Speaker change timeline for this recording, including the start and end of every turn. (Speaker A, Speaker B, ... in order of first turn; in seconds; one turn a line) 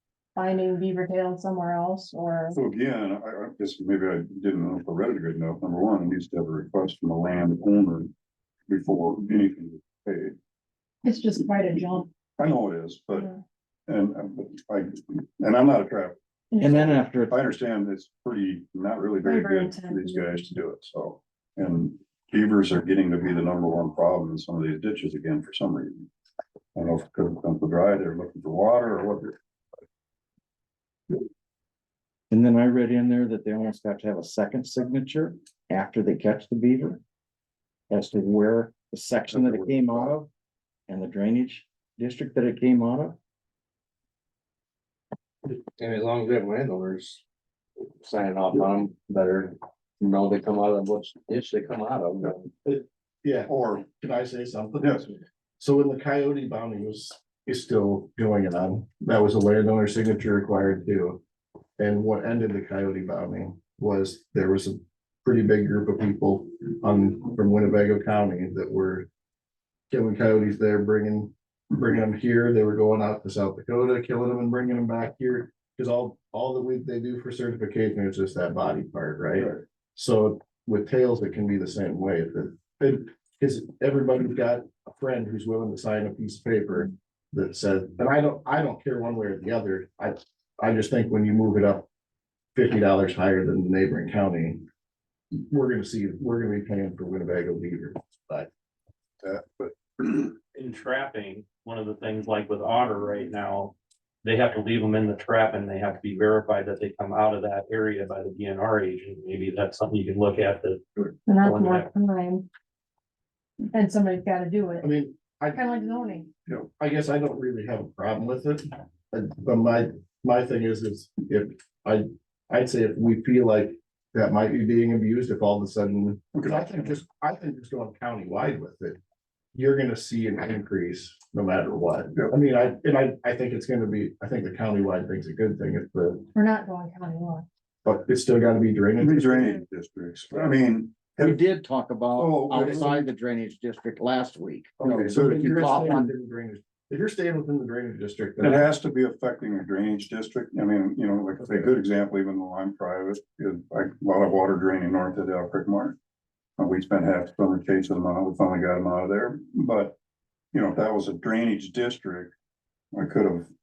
Speaker A: 0.3-2.6
Speaker B: 2.5-8.1
Speaker B: 8.7-10.3
Speaker A: 11.0-12.1
Speaker B: 12.4-13.3
Speaker A: 13.1-13.4
Speaker B: 13.9-16.2
Speaker A: 16.5-17.0
Speaker C: 16.6-17.4
Speaker B: 17.3-26.1
Speaker A: 19.2-20.5
Speaker B: 26.7-29.4
Speaker C: 32.3-37.0
Speaker C: 37.9-40.3
Speaker B: 39.4-39.6
Speaker C: 40.9-43.2
Speaker D: 45.5-47.2
Speaker D: 47.8-52.5
Speaker E: 52.6-61.2
Speaker B: 53.5-53.9
Speaker B: 54.8-55.1
Speaker E: 61.8-69.1
Speaker E: 69.9-91.9
Speaker E: 92.5-94.6
Speaker E: 95.3-98.5
Speaker B: 99.2-100.3
Speaker F: 100.5-111.9
Speaker A: 111.2-112.5
Speaker A: 113.7-114.9
Speaker E: 114.8-115.6
Speaker A: 115.5-116.3
Speaker E: 116.8-129.0
Speaker B: 126.3-127.0
Speaker E: 129.5-136.3
Speaker A: 136.3-137.4
Speaker E: 137.8-139.6
Speaker B: 139.0-141.4
Speaker C: 141.2-146.1
Speaker B: 142.2-143.0
Speaker E: 144.8-148.6
Speaker B: 148.4-155.9
Speaker E: 151.4-151.7
Speaker B: 156.6-159.9
Speaker B: 160.5-162.3
Speaker B: 162.9-163.5